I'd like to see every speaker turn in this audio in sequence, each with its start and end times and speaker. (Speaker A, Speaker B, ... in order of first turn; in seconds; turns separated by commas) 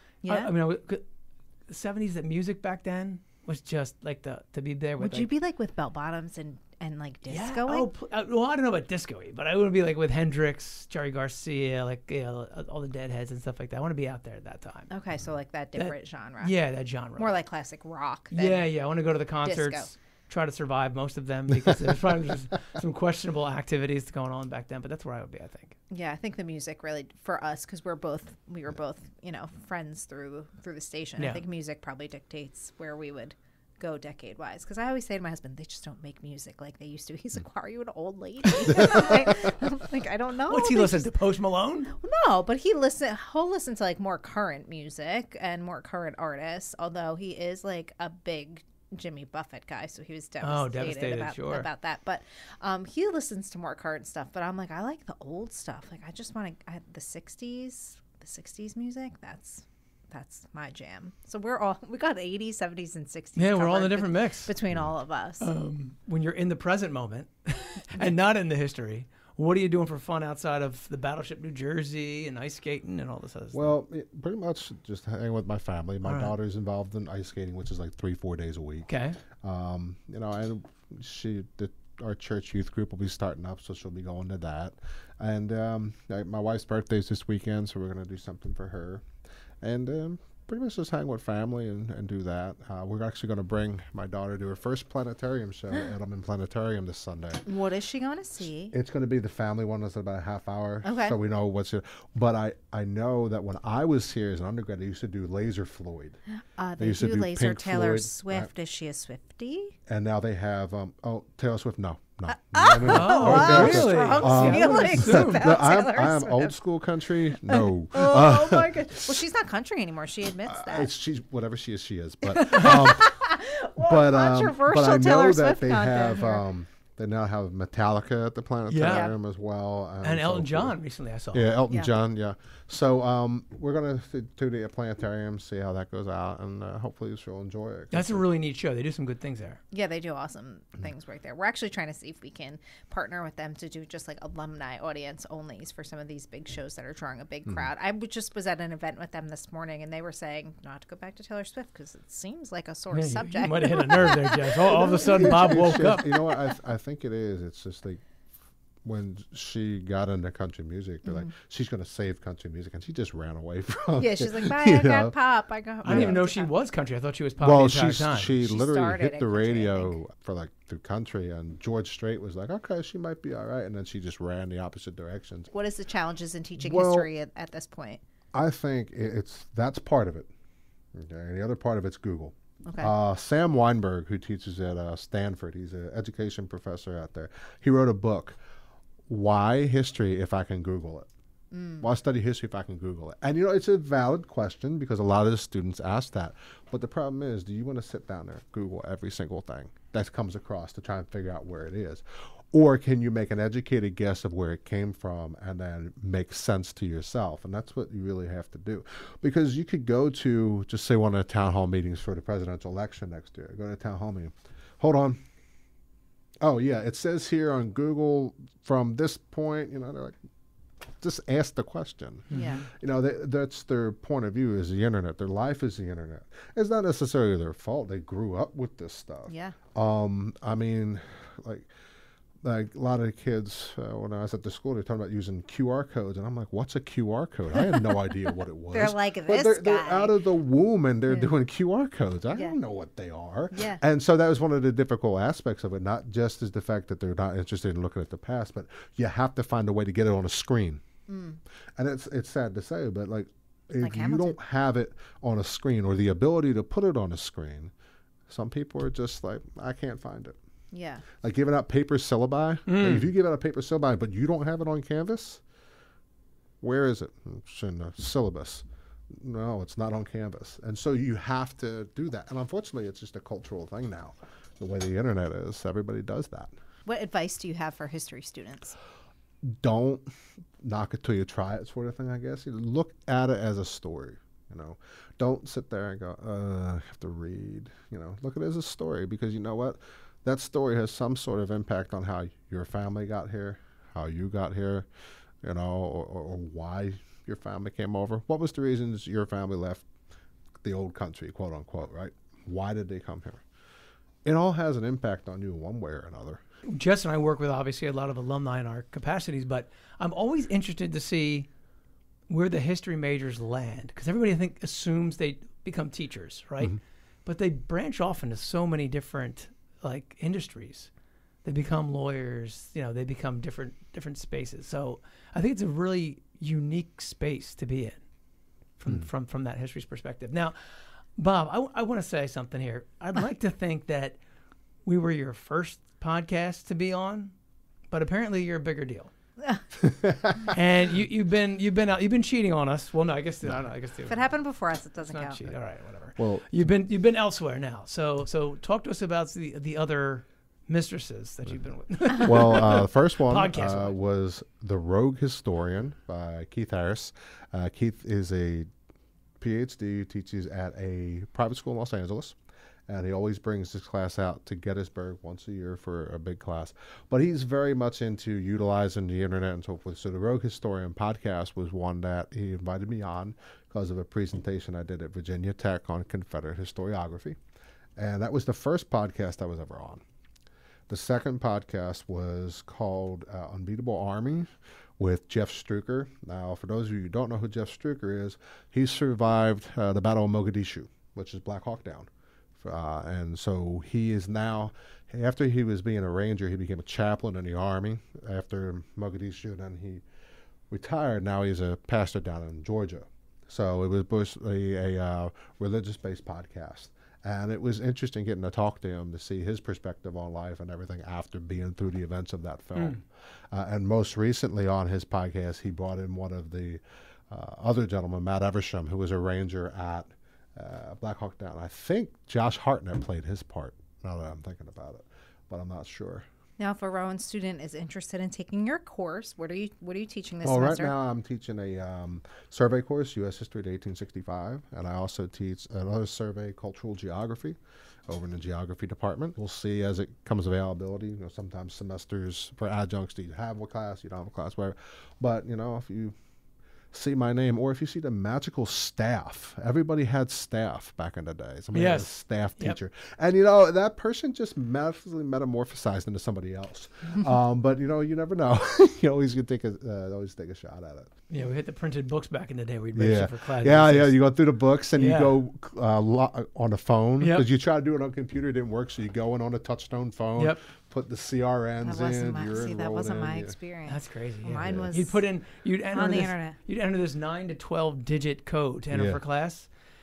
Speaker A: 0.2-0.5, Speaker B: 0.2-1.0, Speaker B: 1.7-5.3, Speaker A: 5.0-7.9, Speaker B: 7.3-14.9, Speaker A: 14.9-16.6, Speaker B: 15.8-17.4, Speaker A: 17.2-18.7, Speaker B: 18.3-25.8, Speaker A: 19.4-19.9, Speaker A: 25.9-41.2, Speaker B: 40.5-41.9, Speaker A: 41.9-65.5, Speaker B: 50.4-51.7, Speaker B: 63.4-64.5, Speaker B: 65.4-73.8, Speaker C: 73.5-78.9, Speaker B: 76.0-76.3, Speaker B: 78.9-79.2, Speaker C: 79.4-89.0, Speaker C: 89.6-97.4, Speaker A: 97.5-98.7, Speaker C: 98.7-106.2, Speaker A: 100.8-101.2, Speaker A: 106.6-109.8, Speaker C: 106.8-108.5, Speaker C: 109.9-119.2, Speaker A: 112.3-116.5, Speaker B: 112.8-115.4, Speaker A: 117.3-120.9, Speaker C: 120.5-123.2, Speaker A: 122.2-126.4, Speaker C: 123.8-130.8, Speaker B: 128.7-129.1, Speaker A: 128.8-129.1, Speaker B: 130.0-131.6, Speaker C: 131.3-138.2, Speaker B: 137.9-139.6, Speaker A: 139.7-156.5, Speaker B: 152.9-156.2, Speaker C: 155.1-158.0, Speaker C: 158.8-165.1, Speaker A: 161.0-161.3, Speaker A: 164.0-166.5, Speaker B: 165.8-168.3, Speaker C: 165.9-166.2, Speaker C: 167.4-175.5, Speaker A: 168.4-170.0, Speaker A: 175.5-178.0, Speaker C: 176.6-177.1, Speaker C: 178.3-180.3, Speaker C: 180.9-188.4, Speaker A: 182.7-182.9, Speaker C: 189.1-191.1, Speaker A: 191.5-191.9, Speaker C: 191.8-215.2, Speaker C: 216.4-220.2, Speaker C: 221.0-231.7, Speaker B: 222.3-222.6, Speaker A: 222.3-222.7, Speaker A: 229.3-229.6, Speaker C: 232.4-250.8, Speaker A: 238.7-240.1, Speaker A: 243.5-243.8, Speaker A: 251.1-251.4, Speaker C: 251.8-257.7, Speaker A: 253.8-254.4, Speaker C: 258.3-260.4, Speaker A: 260.7-261.1, Speaker C: 261.1-265.4, Speaker B: 262.7-263.1, Speaker C: 266.6-276.5, Speaker A: 276.9-278.8, Speaker C: 279.4-294.9, Speaker C: 295.4-299.9, Speaker C: 300.6-303.4, Speaker C: 304.2-306.4, Speaker B: 306.6-311.5, Speaker B: 312.3-320.9, Speaker B: 321.4-328.0, Speaker B: 328.8-330.6, Speaker B: 331.1-334.2, Speaker B: 334.8-337.3, Speaker B: 337.9-339.1, Speaker B: 340.5-344.2, Speaker A: 344.1-345.4, Speaker B: 345.1-353.9, Speaker C: 346.2-346.4, Speaker C: 352.2-358.7, Speaker C: 359.4-362.4, Speaker C: 362.9-377.4, Speaker C: 378.0-380.0, Speaker C: 380.9-400.0, Speaker C: 400.7-426.2, Speaker B: 412.8-413.0, Speaker A: 426.6-430.9, Speaker C: 430.4-446.1, Speaker C: 446.9-461.1, Speaker B: 451.7-452.8, Speaker B: 461.3-464.2, Speaker C: 462.9-473.5, Speaker B: 464.9-465.3, Speaker B: 467.2-467.5, Speaker A: 471.8-475.2, Speaker B: 473.9-479.7, Speaker C: 474.6-474.9, Speaker A: 475.9-476.6, Speaker C: 478.9-479.2